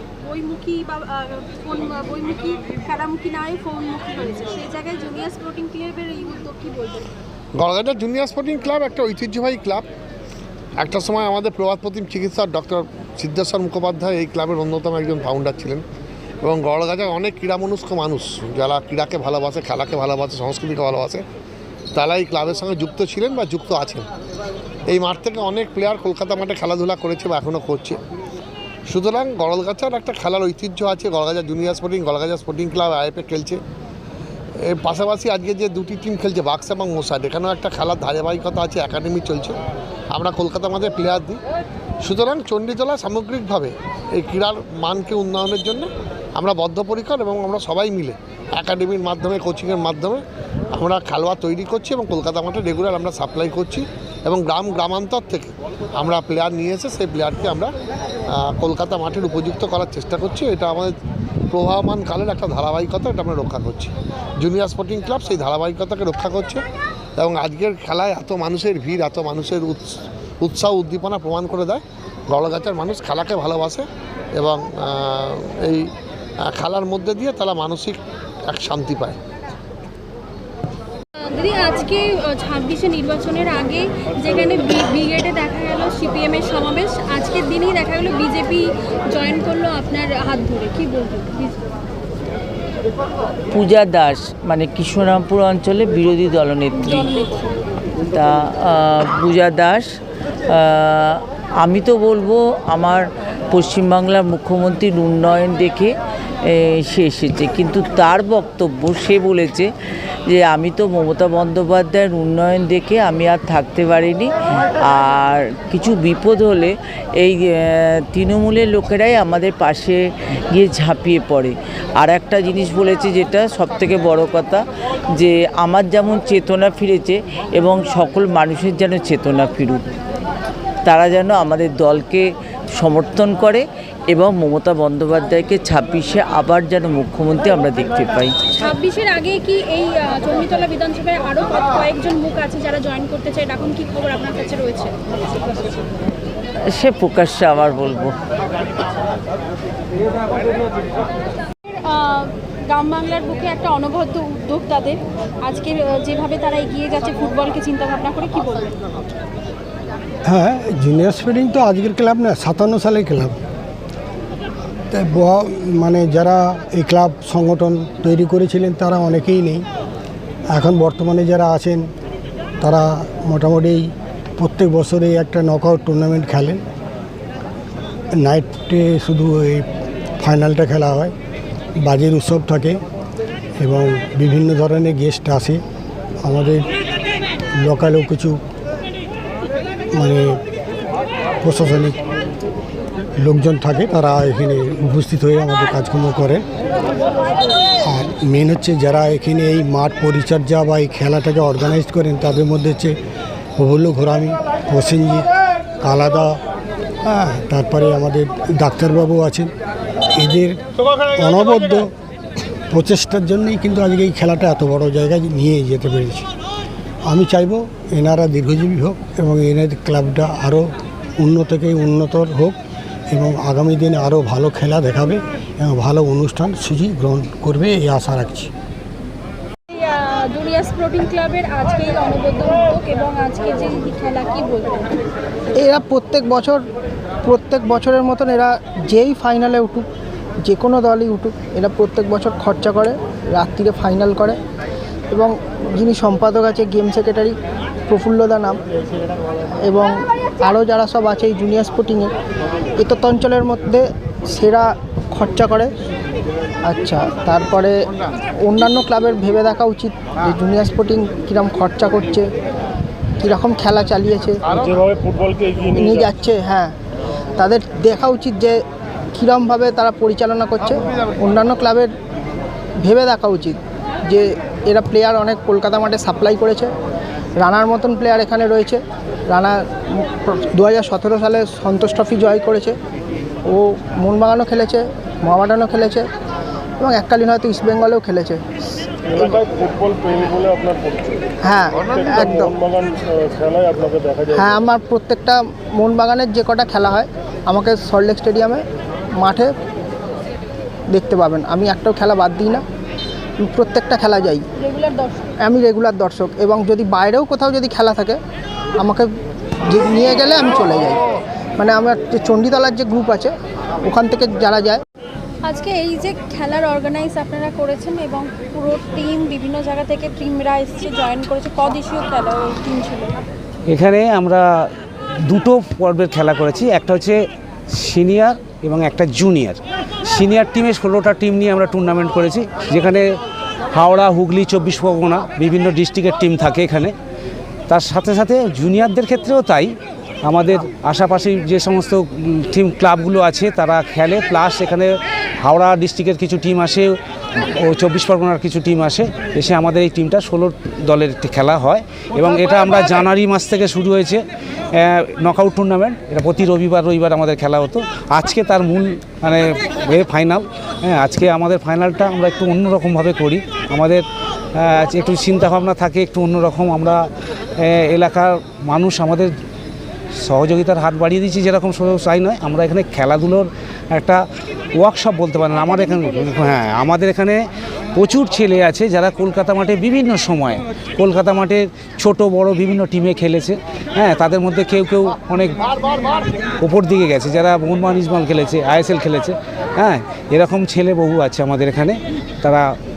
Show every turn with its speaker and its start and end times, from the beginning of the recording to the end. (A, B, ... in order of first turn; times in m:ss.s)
0:00.2-0:07.1 A
0:07.6-0:09.9 B
0:10.8-0:15.8 B
0:16.4-0:21.2 B
0:22.0-0:24.1 B
0:24.9-0:28.0 B
0:28.9-0:33.6 B
0:34.6-0:39.6 B
0:40.1-0:41.4 B
0:42.0-0:50.2 B
0:50.7-0:57.7 B
0:58.3-1:00.9 B
1:01.5-1:06.6 B
1:07.2-1:09.8 B
1:10.4-1:13.8 B
1:14.4-1:15.9 B
1:16.5-1:18.0 B
1:18.5-1:19.2 B
1:21.2-1:31.6 A
1:33.5-1:37.1 C
1:36.8-1:37.5 A
1:38.1-1:39.9 C
1:40.5-1:49.7 C
1:50.3-2:09.9 C
2:10.8-2:18.4 C
2:18.6-2:25.0 A
2:26.6-2:28.2 C
2:31.7-2:38.8 A
2:40.2-2:43.4 D
2:44.9-2:49.7 D
2:50.5-2:51.9 D
2:52.6-2:56.6 D
2:58.2-2:59.7 D
3:00.2-3:01.1 D
3:01.8-3:02.8 D
3:03.6-3:05.6 D
3:06.2-3:06.7 D
3:07.6-3:08.4 D
3:09.9-3:10.4 D
3:11.4-3:12.0 D
3:13.2-3:16.4 D
3:17.8-3:23.0 D
3:23.6-3:25.3 D
3:25.8-3:26.4 D
3:27.0-3:29.5 D
3:30.1-3:31.9 D
3:32.7-3:36.3 D
3:37.1-3:42.6 D
3:43.1-3:48.5 D
3:49.7-3:54.9 A
3:55.6-3:56.6 C
3:57.2-3:59.9 C
4:00.4-4:04.4 C
4:05.1-4:07.4 C
4:07.9-4:08.6 C
4:09.6-4:12.1 C
4:12.8-4:15.7 C
4:16.6-4:17.8 C
4:18.4-4:22.3 C
4:23.2-4:24.5 C
4:24.6-4:26.1 E
4:25.7-4:26.8 C
4:27.4-4:28.6 C
4:29.1-4:31.9 C
4:32.8-4:36.7 C
4:37.4-4:42.8 C
4:43.4-4:46.1 C
4:46.8-4:48.4 C
4:49.1-4:51.2 E
4:51.4-4:52.6 C
4:51.9-4:54.6 E
4:54.3-4:58.6 C
4:59.2-4:59.5 C
5:00.9-5:02.6 C
5:03.4-5:04.5 C
5:04.6-5:05.3 A
5:05.4-5:08.2 C
5:08.8-5:09.1 C
5:09.7-5:11.0 C
5:11.6-5:13.3 C
5:13.8-5:14.8 C
5:15.4-5:23.2 A
5:23.7-5:24.7 F
5:25.2-5:27.2 F
5:27.7-5:33.0 F
5:33.7-5:36.9 F
5:37.7-6:04.0 F
6:04.6-6:07.1 F
6:07.6-6:09.3 F
6:10.2-6:14.2 F
6:14.8-6:17.4 F
6:17.9-6:25.8 F
6:26.6-6:32.7 F